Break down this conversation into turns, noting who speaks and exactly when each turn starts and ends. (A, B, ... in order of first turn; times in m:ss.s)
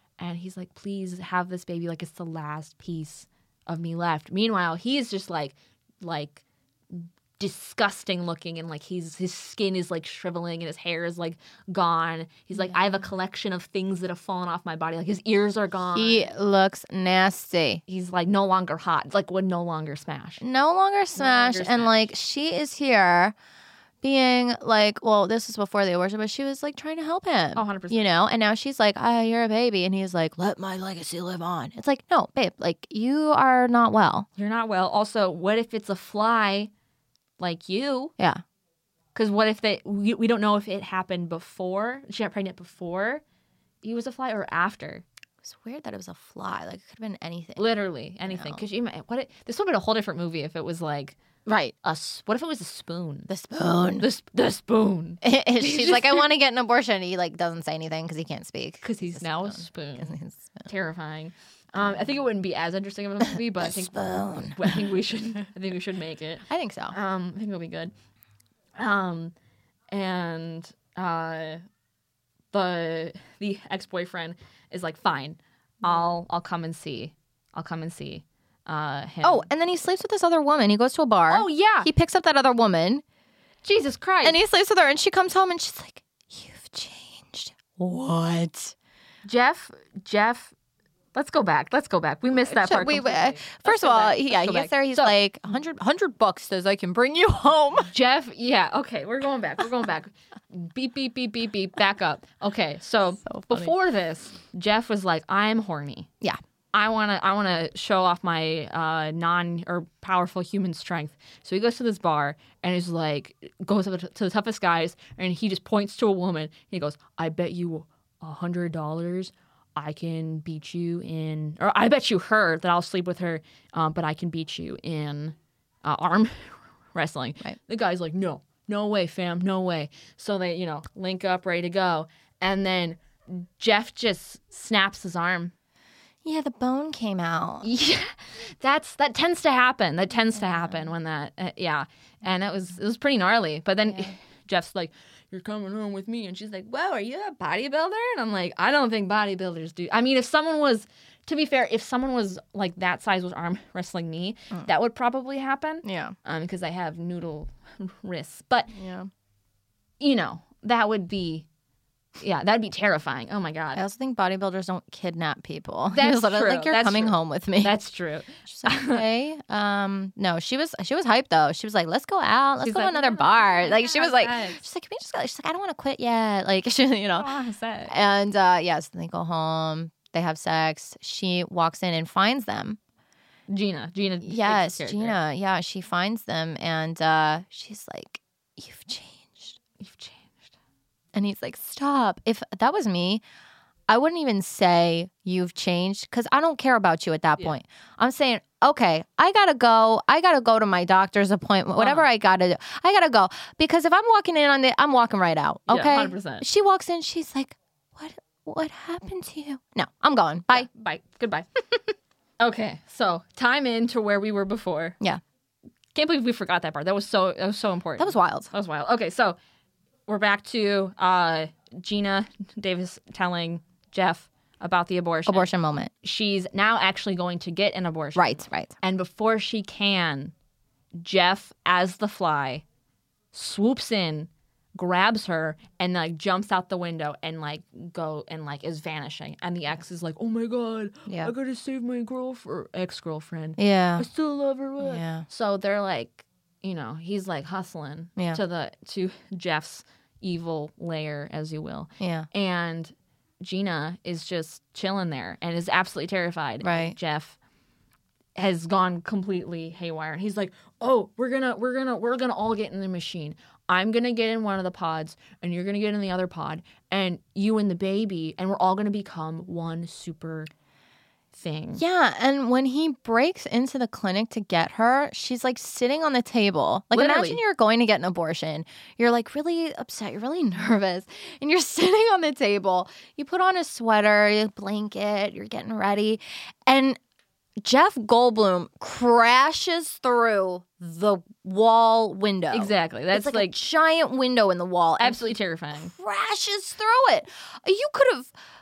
0:00.2-0:16.3 A
0:12.6-0:12.9 B
0:15.9-0:17.8 B
0:17.9-0:20.4 A
0:20.4-0:23.3 B
0:21.1-0:22.1 A
0:24.0-0:34.3 B
0:27.5-0:28.0 A
0:34.4-0:36.7 A
0:37.4-0:38.1 A
0:39.1-0:43.2 A
0:43.8-0:45.0 A
0:45.4-0:47.6 B
0:47.6-0:51.2 A
0:48.3-0:48.6 B
0:51.4-0:51.7 B
0:51.8-0:53.3 A
0:53.3-0:54.0 B
0:54.0-0:56.3 A
0:55.2-1:00.7 B
0:58.8-1:00.1 A
1:00.7-1:07.9 A
1:03.3-1:04.9 B
1:06.5-1:06.9 B
1:08.8-1:09.3 A
1:09.9-1:11.6 A
1:12.5-1:19.4 A
1:15.8-1:16.1 B
1:19.2-1:23.0 B
1:21.3-1:21.9 A
1:23.6-1:24.4 A
1:24.2-1:28.7 B
1:29.2-1:30.5 A
1:31.1-1:35.1 A
1:32.4-1:37.9 B
1:37.9-1:46.1 A
1:43.3-1:43.7 B
1:46.7-2:15.5 A
2:16.2-2:17.7 B
2:17.6-2:38.7 A
2:23.9-2:24.1 B
2:35.8-2:36.1 B
2:38.7-2:39.1 B
2:40.0-2:41.5 A
2:42.2-2:43.8 A
2:43.7-2:47.8 B
2:45.9-2:49.0 A
2:48.4-2:57.3 B
2:52.6-2:54.6 A
2:57.2-2:57.9 A
2:57.9-3:02.8 B
3:03.5-3:05.2 A
3:04.2-3:09.6 B
3:09.8-3:10.5 A
3:11.1-3:13.2 B
3:13.9-3:30.7 B
3:21.8-3:22.1 A
3:25.7-3:26.4 A
3:30.5-3:31.8 A
3:32.4-3:35.0 A
3:35.9-3:39.4 A
3:38.0-3:38.5 B
3:40.1-3:45.5 A
3:45.3-3:45.9 B
3:46.0-3:50.3 A
3:48.2-3:48.7 B
3:51.0-3:52.6 A
3:53.3-4:17.4 A
4:01.1-4:01.3 B
4:03.6-4:04.1 B
4:04.8-4:05.2 B
4:12.0-4:12.3 B
4:16.6-4:17.0 B
4:18.4-4:30.5 A
4:31.3-4:31.8 A
4:31.8-4:47.0 B
4:36.9-4:37.4 A
4:47.6-4:58.3 B
4:52.5-4:53.6 A
4:55.0-4:55.9 A